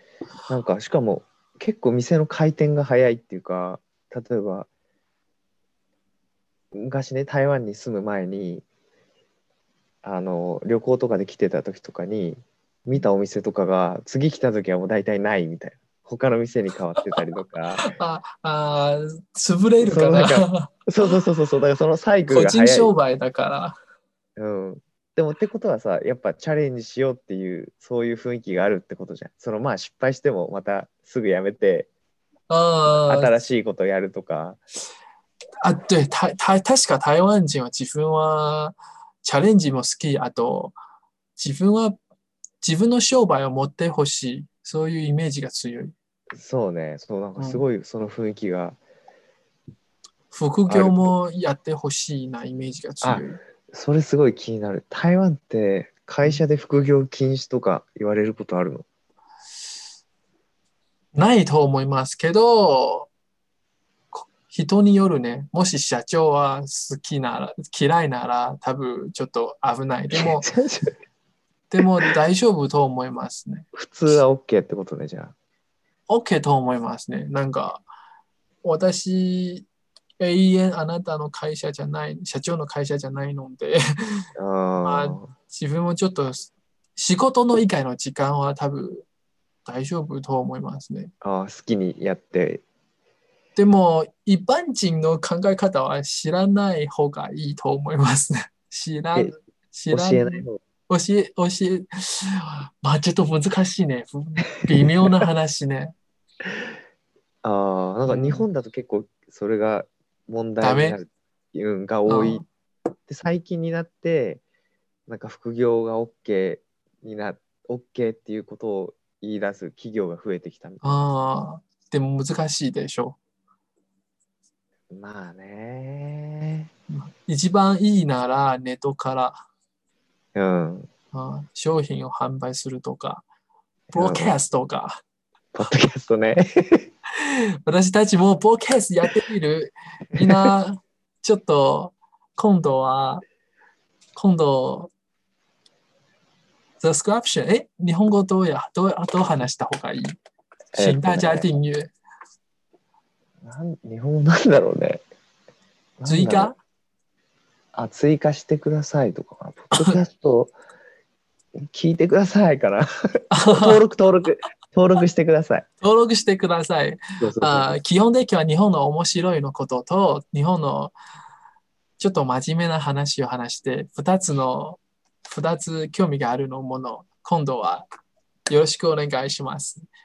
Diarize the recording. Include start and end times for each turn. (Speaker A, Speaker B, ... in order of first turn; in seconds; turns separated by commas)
Speaker A: 0.5-4.7, Speaker A: 6.7-8.6, Speaker A: 10.0-17.8, Speaker B: 17.8-21.1, Speaker A: 19.8-22.9, Speaker B: 22.3-23.8, Speaker A: 24.4-31.9, Speaker B: 32.5-33.3, Speaker A: 32.9-34.6, Speaker B: 35.6-40.7, Speaker B: 41.4-42.0, Speaker B: 42.6-45.9, Speaker A: 46.3-48.8, Speaker B: 47.4-47.6, Speaker B: 50.3-53.4, Speaker A: 50.7-51.1, Speaker A: 53.0-58.8, Speaker B: 61.1-63.1, Speaker B: 64.1-70.5, Speaker A: 70.1-70.9, Speaker B: 71.7-73.7, Speaker A: 71.8-72.1, Speaker A: 73.7-75.3, Speaker B: 76.1-77.8, Speaker B: 78.6-79.7, Speaker B: 80.2-84.3, Speaker A: 84.3-85.3, Speaker B: 84.8-89.0, Speaker B: 89.6-91.1, Speaker A: 91.2-92.6, Speaker B: 93.5-105.9, Speaker A: 99.9-100.6, Speaker A: 104.7-105.1, Speaker A: 107.4-112.4, Speaker B: 108.1-108.5, Speaker B: 110.6-111.0, Speaker B: 112.1-112.5, Speaker A: 113.1-114.4, Speaker A: 115.1-121.0, Speaker B: 120.8-123.2, Speaker A: 124.9-126.7, Speaker B: 126.9-129.4, Speaker A: 130.3-130.9, Speaker B: 131.1-133.2, Speaker B: 133.9-135.0, Speaker A: 133.9-134.3, Speaker A: 135.5-136.9, Speaker B: 137.1-143.2, Speaker A: 140.2-140.5, Speaker B: 144.2-144.9, Speaker B: 146.8-150.2, Speaker A: 150.7-151.5, Speaker B: 150.8-151.9, Speaker A: 153.4-155.0, Speaker A: 156.0-156.5, Speaker B: 156.1-156.6, Speaker A: 157.7-160.5, Speaker B: 159.7-160.0, Speaker A: 161.6-165.7, Speaker B: 163.3-163.8, Speaker B: 165.8-170.9, Speaker A: 167.2-167.8, Speaker B: 172.0-177.8, Speaker B: 178.5-179.8